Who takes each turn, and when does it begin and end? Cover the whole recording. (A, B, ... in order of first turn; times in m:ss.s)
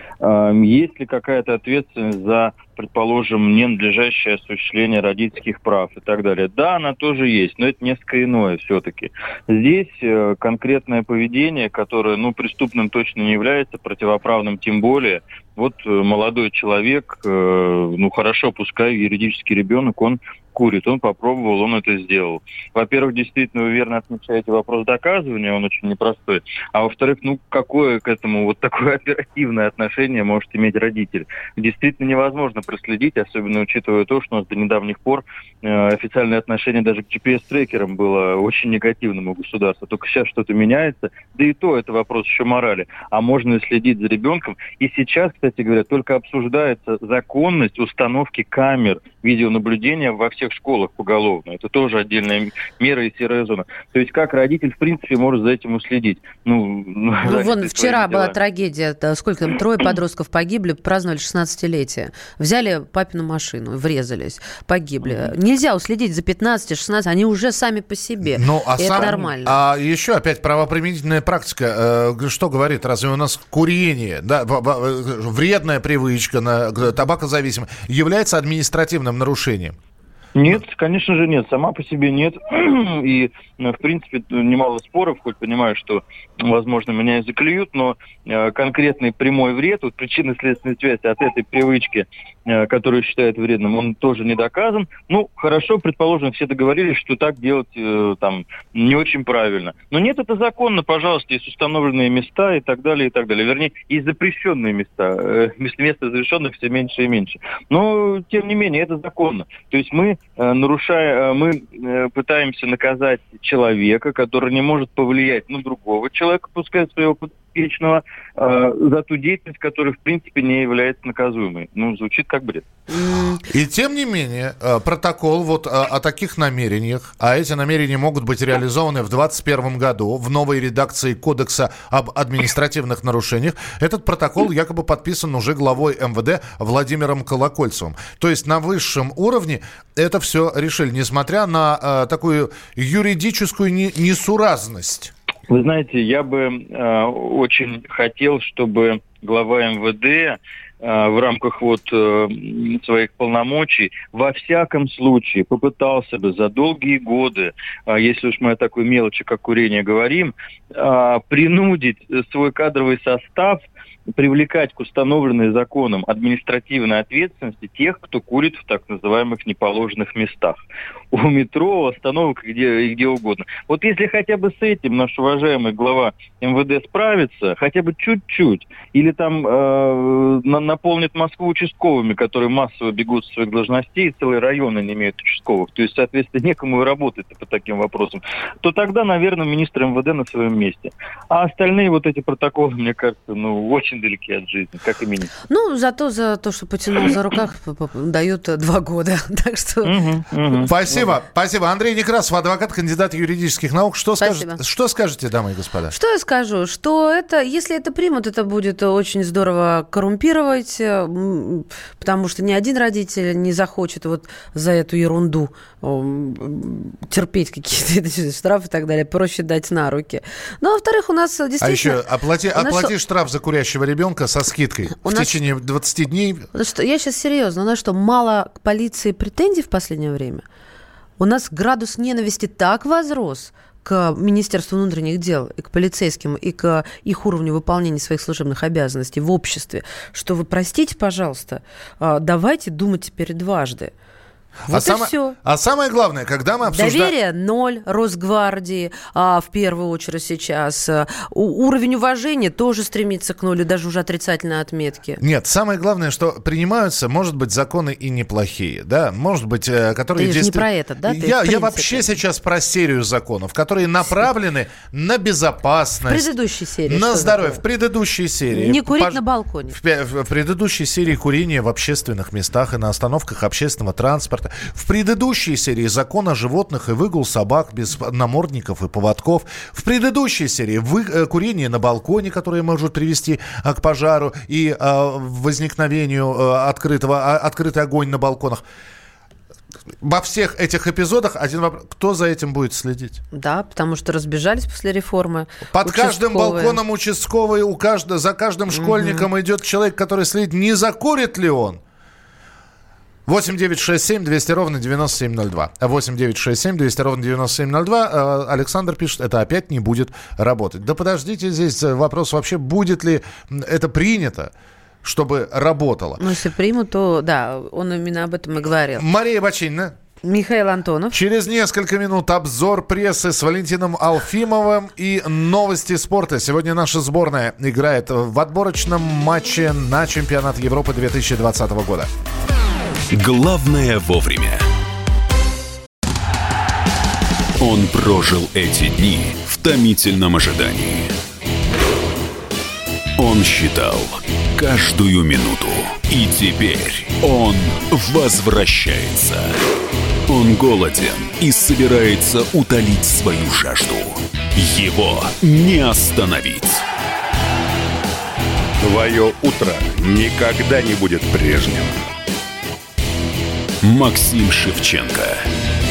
0:00.2-0:58.3 A
0:57.2-1:09.6 B
1:08.3-1:19.8 C
1:20.4-2:02.7 A
2:02.9-2:03.4 B
2:03.4-2:25.1 C
2:25.5-2:43.6 A
2:44.2-2:50.6 A
2:51.1-3:15.3 A
3:15.5-3:20.7 B
3:19.8-3:21.0 A
3:20.7-3:25.9 C
3:24.2-3:24.6 B
3:25.9-3:42.0 B
3:41.6-3:46.5 C
3:42.6-3:42.9 B
3:45.0-3:45.4 B
3:46.5-3:50.4 B
3:51.2-4:03.9 B
4:04.7-4:07.1 C
4:04.7-4:05.4 B
4:06.7-4:15.2 B
4:15.2-4:26.3 C
4:20.2-4:22.1 B
4:26.1-4:27.6 B
4:26.9-4:48.6 C
4:28.5-4:29.8 B
4:50.0-4:53.2 C
4:53.3-4:56.8 B
4:55.7-5:01.8 C
4:58.7-4:59.3 B
5:03.3-5:14.5 C
5:15.0-5:16.2 C
5:16.2-5:19.0 B
5:19.0-5:19.9 C
5:20.2-5:21.2 B
5:21.1-5:32.1 C
5:33.1-5:34.6 D
5:37.6-5:41.1 D
5:43.2-5:49.6 D
5:50.3-5:56.8 D
5:58.8-6:02.0 E
6:03.8-6:05.5 D